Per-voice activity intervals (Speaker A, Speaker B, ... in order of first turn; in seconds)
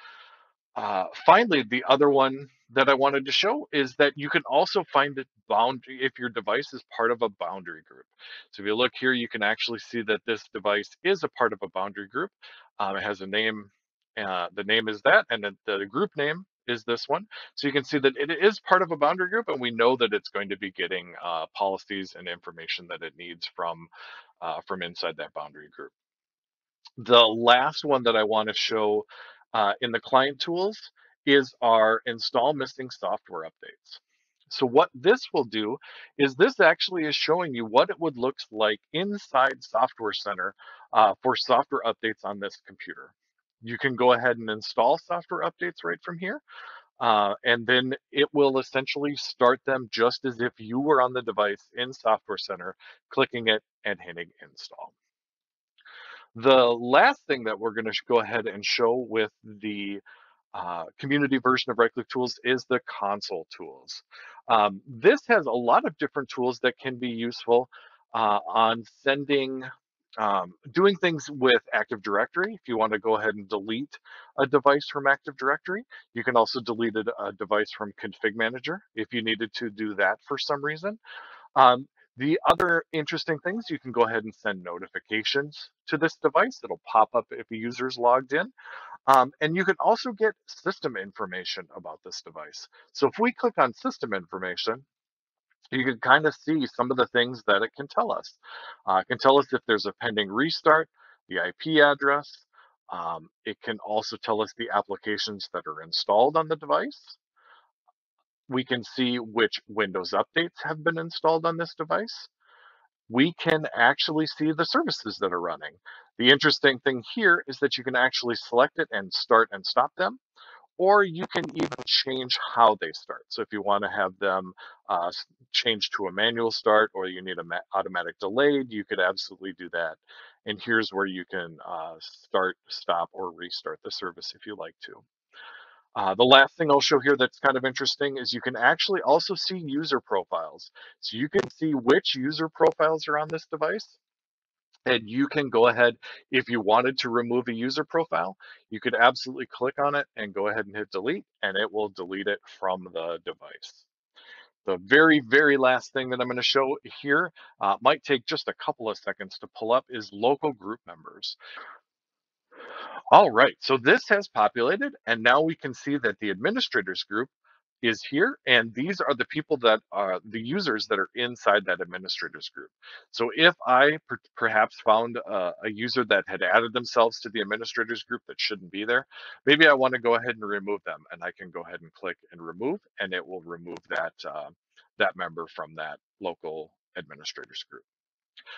Speaker A: 0.8-23.9, 24.4-25.9, 27.0-46.4, 47.0-54.9, 56.3-60.0, 60.5-81.0, 81.5-88.5, 89.1-94.8, 95.7-107.2, 108.5-112.3, 113.1-120.2, 120.8-135.0, 135.9-144.0, 144.8-153.8, 154.6-161.4, 163.1-167.3, 167.8-187.8